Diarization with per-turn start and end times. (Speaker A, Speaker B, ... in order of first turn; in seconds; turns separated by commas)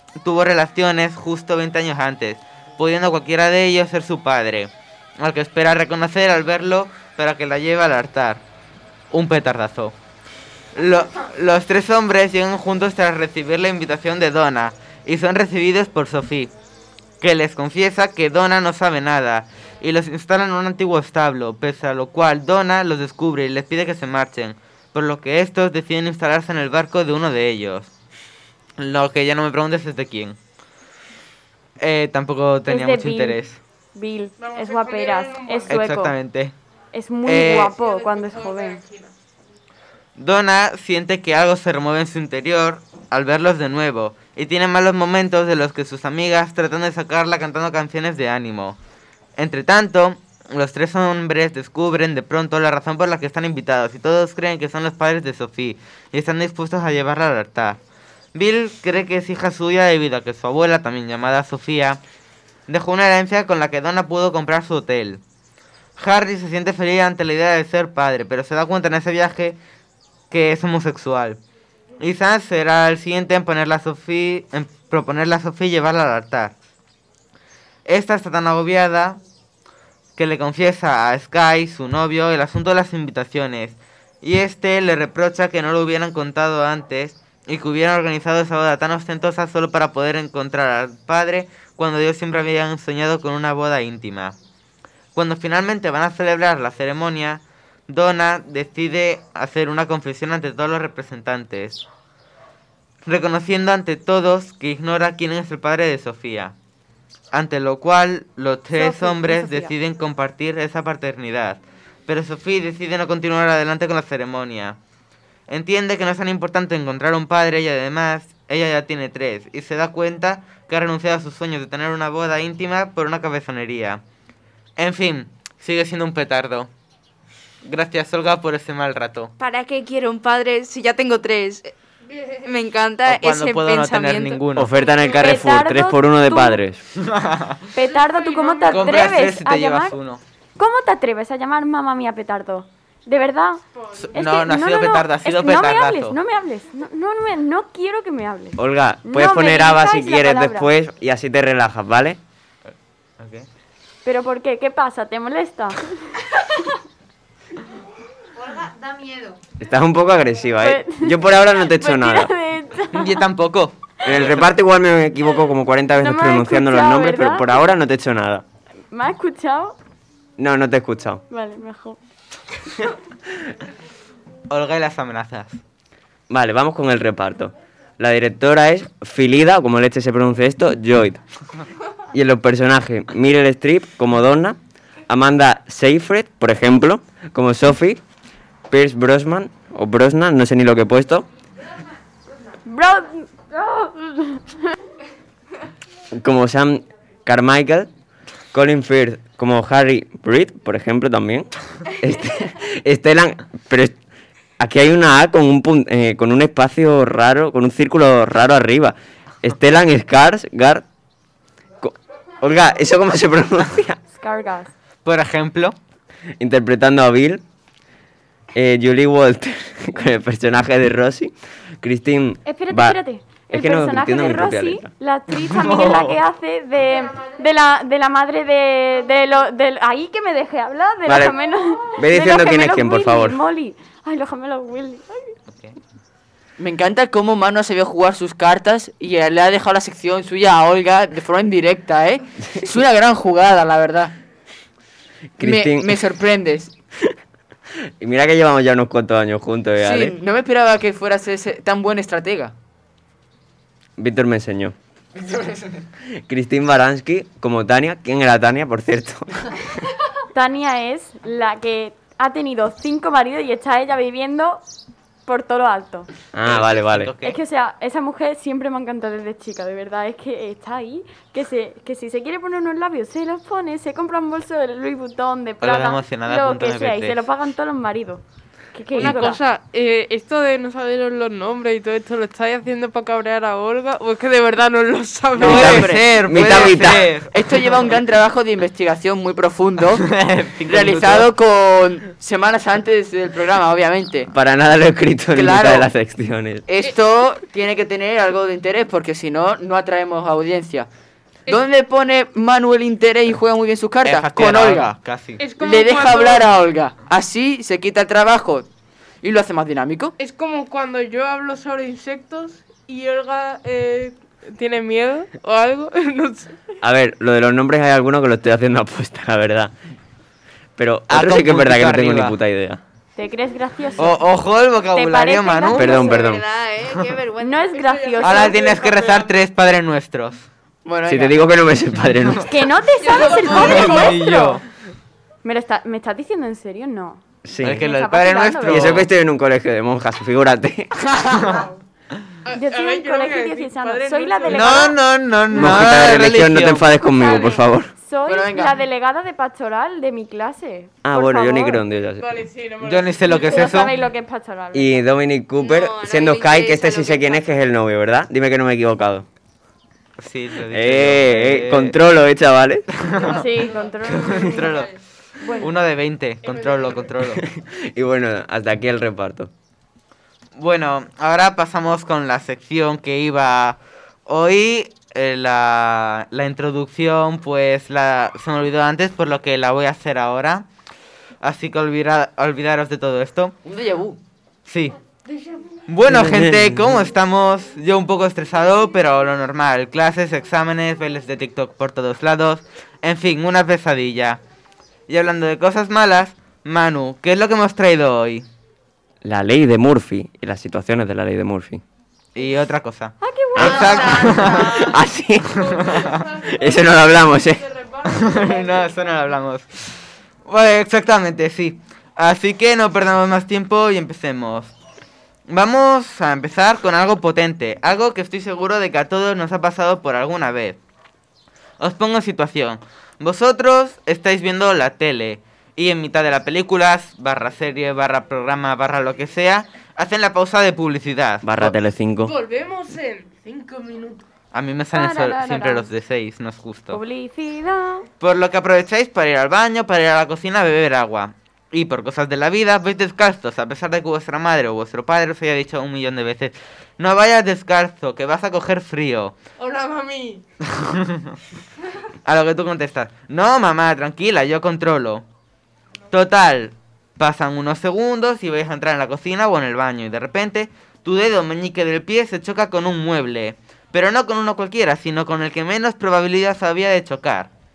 Speaker A: 0.2-8.4, Speaker A: 9.1-9.9, Speaker A: 10.8-16.5, Speaker A: 17.2-27.9, Speaker A: 28.8-30.4, Speaker A: 31.8-33.6, Speaker B: 32.7-33.4, Speaker B: 33.9-36.1, Speaker C: 34.4-35.8, Speaker A: 35.7-36.5, Speaker B: 36.9-38.8, Speaker A: 37.2-37.7, Speaker C: 37.6-39.1, Speaker A: 40.2-48.8, Speaker A: 49.4-57.8, Speaker A: 58.3-62.0, Speaker A: 62.7-65.2, Speaker A: 66.0-69.6, Speaker A: 70.3-71.4, Speaker A: 72.0-76.5, Speaker A: 77.8-79.2, Speaker A: 80.2-94.3, Speaker A: 95.1-101.8, Speaker A: 103.0-106.5, Speaker A: 107.3-114.8, Speaker B: 108.7-109.7, Speaker A: 115.5-124.0, Speaker A: 124.8-126.7, Speaker A: 127.6-129.3, Speaker D: 129.4-131.7, Speaker C: 132.1-132.6, Speaker D: 132.4-134.5, Speaker A: 133.1-134.7, Speaker E: 134.5-136.8, Speaker C: 134.8-135.2, Speaker B: 135.2-136.6, Speaker A: 136.9-137.6, Speaker B: 137.7-140.0, Speaker C: 137.8-139.3, Speaker A: 138.7-140.2, Speaker B: 140.6-143.6, Speaker C: 143.7-144.1, Speaker A: 144.1-146.2, Speaker B: 144.1-150.7, Speaker E: 148.6-152.2, Speaker A: 153.2-153.5, Speaker B: 154.0-156.6, Speaker F: 158.3-159.4, Speaker E: 159.6-162.3, Speaker B: 160.6-161.2, Speaker B: 161.7-163.2, Speaker A: 162.9-164.4, Speaker E: 164.0-168.4, Speaker B: 166.0-167.7, Speaker B: 168.9-169.8, Speaker E: 170.4-171.2, Speaker B: 171.3-172.0, Speaker A: 174.5-175.6, Speaker E: 176.3-181.2, Speaker E: 182.1-184.6, Speaker E: 185.1-188.0, Speaker E: 188.7-191.2, Speaker B: 192.7-194.6, Speaker E: 196.2-197.9, Speaker E: 198.5-203.9, Speaker E: 204.6-210.8, Speaker E: 211.8-214.0, Speaker B: 214.1-214.7, Speaker A: 215.0-215.8, Speaker E: 216.4-217.4, Speaker E: 218.5-224.9, Speaker B: 222.4-235.3, Speaker A: 225.4-226.2, Speaker E: 231.1-231.3, Speaker E: 232.0-233.4, Speaker G: 236.6-244.1, Speaker E: 245.4-246.0, Speaker G: 245.4-246.7, Speaker E: 248.0-250.2, Speaker G: 249.8-252.5, Speaker E: 254.0-254.7, Speaker E: 256.2-259.6, Speaker B: 260.3-264.6, Speaker B: 265.2-266.1, Speaker E: 266.3-267.1, Speaker A: 266.4-267.4, Speaker B: 267.2-278.2, Speaker A: 275.6-277.2, Speaker B: 278.7-279.4, Speaker C: 278.9-285.9, Speaker E: 285.4-287.1, Speaker G: 285.4-290.1, Speaker A: 285.4-287.3, Speaker A: 290.0-291.3, Speaker G: 290.6-294.3, Speaker E: 294.3-296.6, Speaker G: 295.3-295.9, Speaker G: 296.7-300.9, Speaker G: 301.5-304.9, Speaker A: 304.0-305.4, Speaker C: 305.4-306.5, Speaker G: 305.6-308.7, Speaker G: 309.2-310.1, Speaker C: 310.2-316.6, Speaker E: 316.8-319.7, Speaker E: 320.8-322.8, Speaker A: 321.1-322.4, Speaker B: 323.1-324.3, Speaker A: 324.0-326.0, Speaker B: 324.9-325.9, Speaker E: 325.7-326.4, Speaker D: 325.8-328.0, Speaker B: 327.4-328.6, Speaker C: 327.8-329.4, Speaker A: 328.2-330.5, Speaker G: 330.8-331.4, Speaker E: 331.1-332.5, Speaker B: 332.5-334.6, Speaker C: 333.0-334.6, Speaker A: 333.3-334.6, Speaker B: 335.4-337.2, Speaker E: 337.4-337.9, Speaker A: 337.6-339.1, Speaker B: 337.8-339.0, Speaker E: 338.6-340.9, Speaker G: 341.1-341.5, Speaker C: 341.4-341.8, Speaker C: 342.4-345.0, Speaker B: 342.5-345.0, Speaker A: 344.5-346.9, Speaker E: 345.5-347.9, Speaker B: 347.1-351.8, Speaker G: 348.3-348.7, Speaker E: 351.0-352.3, Speaker C: 352.2-353.9, Speaker A: 352.8-353.9, Speaker B: 353.4-355.0, Speaker E: 354.7-359.2, Speaker D: 355.6-357.5, Speaker A: 360.2-361.9, Speaker E: 360.7-362.9, Speaker A: 362.9-363.4, Speaker C: 363.1-364.9, Speaker B: 363.3-364.9, Speaker A: 364.1-364.9, Speaker B: 365.4-365.7, Speaker A: 365.6-367.4, Speaker C: 366.4-367.1, Speaker E: 367.4-369.5, Speaker A: 370.6-380.6, Speaker A: 381.4-383.5, Speaker G: 383.6-384.2, Speaker A: 384.6-384.9, Speaker A: 385.9-394.4, Speaker E: 386.1-386.9, Speaker A: 395.1-398.4, Speaker E: 399.2-401.8, Speaker A: 402.3-404.9, Speaker B: 403.2-404.4, Speaker E: 403.6-405.8, Speaker F: 403.6-404.9, Speaker C: 405.6-409.4, Speaker A: 405.6-406.1, Speaker E: 406.5-407.6, Speaker A: 408.1-409.6, Speaker A: 410.4-414.7, Speaker A: 415.5-420.8, Speaker A: 421.8-431.7, Speaker E: 431.4-432.3, Speaker C: 432.2-434.2, Speaker A: 434.5-437.0, Speaker B: 434.9-435.9, Speaker B: 436.9-438.1, Speaker A: 438.2-449.4, Speaker C: 449.6-450.4, Speaker A: 450.6-451.3, Speaker A: 452.2-455.2, Speaker A: 456.1-467.5